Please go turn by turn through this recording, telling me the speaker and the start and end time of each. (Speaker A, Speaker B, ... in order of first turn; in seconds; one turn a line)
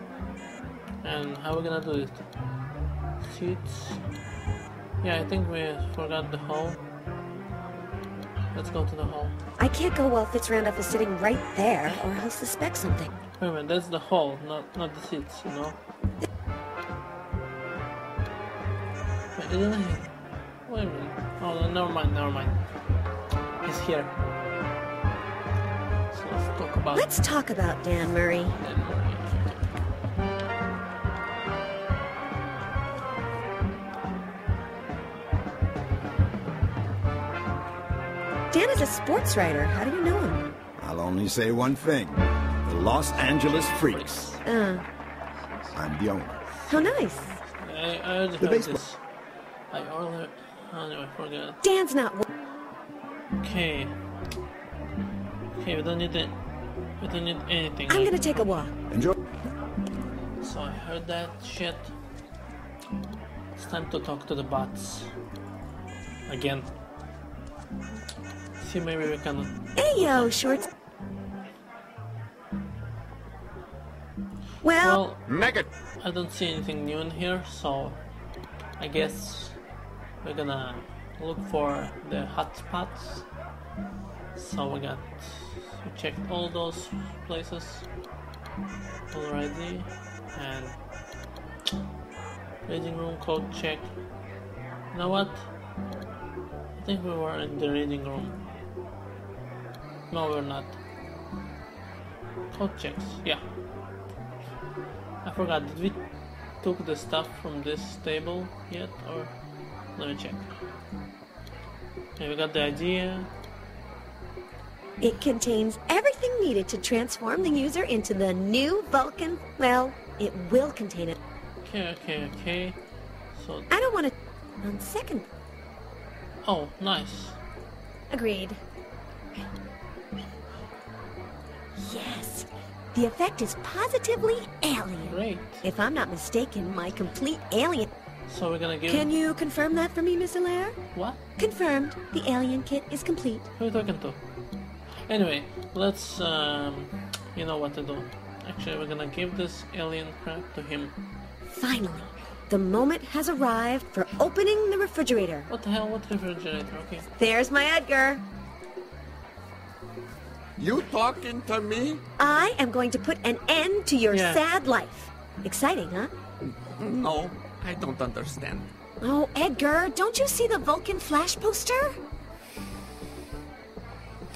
Speaker A: 1.0-2.2
Speaker A: 3.2-4.0
Speaker A: 5.0-6.8
Speaker A: 8.5-9.3
Speaker B: 9.6-13.1
Speaker A: 13.4-15.8
Speaker A: 19.3-20.1
Speaker A: 20.6-22.6
Speaker A: 23.6-24.1
Speaker A: 26.1-27.1
Speaker B: 26.9-28.6
Speaker A: 28.6-29.6
Speaker B: 38.5-40.5
Speaker C: 40.8-44.3
Speaker A: 43.1-44.4
Speaker B: 44.4-44.8
Speaker A: 45.4-45.8
Speaker C: 45.7-46.4
Speaker A: 46.6-49.0
Speaker B: 46.7-47.3
Speaker C: 48.4-48.8
Speaker A: 49.7-51.6
Speaker B: 51.6-52.2
Speaker A: 53.4-53.9
Speaker A: 55.5-56.3
Speaker A: 57.0-58.6
Speaker B: 57.9-58.7
Speaker A: 60.4-61.9
Speaker A: 63.5-65.1
Speaker A: 66.3-66.7
Speaker A: 68.6-70.4
Speaker B: 69.8-70.7
Speaker B: 74.6-75.0
Speaker A: 74.8-75.2
Speaker A: 76.0-78.0
Speaker A: 78.8-79.6
Speaker A: 80.2-83.2
Speaker A: 84.3-87.9
Speaker A: 89.1-90.8
Speaker A: 92.7-93.9
Speaker A: 94.9-95.5
Speaker A: 96.8-98.4
Speaker A: 100.1-100.8
Speaker A: 102.5-103.4
Speaker A: 105.2-106.0
Speaker A: 106.6-109.3
Speaker A: 110.0-110.5
Speaker A: 112.2-113.3
Speaker B: 115.0-121.2
Speaker A: 121.6-122.8
Speaker A: 123.3-123.7
Speaker B: 123.7-125.3
Speaker A: 126.4-127.4
Speaker B: 128.1-128.6
Speaker B: 131.8-137.9
Speaker A: 135.0-135.6
Speaker A: 138.3-139.1
Speaker B: 138.9-140.8
Speaker A: 140.9-141.2
Speaker B: 141.4-143.5
Speaker A: 143.6-144.2
Speaker A: 145.1-151.0
Speaker B: 151.5-155.5
Speaker A: 155.5-157.1
Speaker B: 157.2-158.2
Speaker D: 160.6-162.0
Speaker B: 162.2-166.1
Speaker A: 164.1-164.4
Speaker D: 166.8-168.7
Speaker B: 169.0-172.0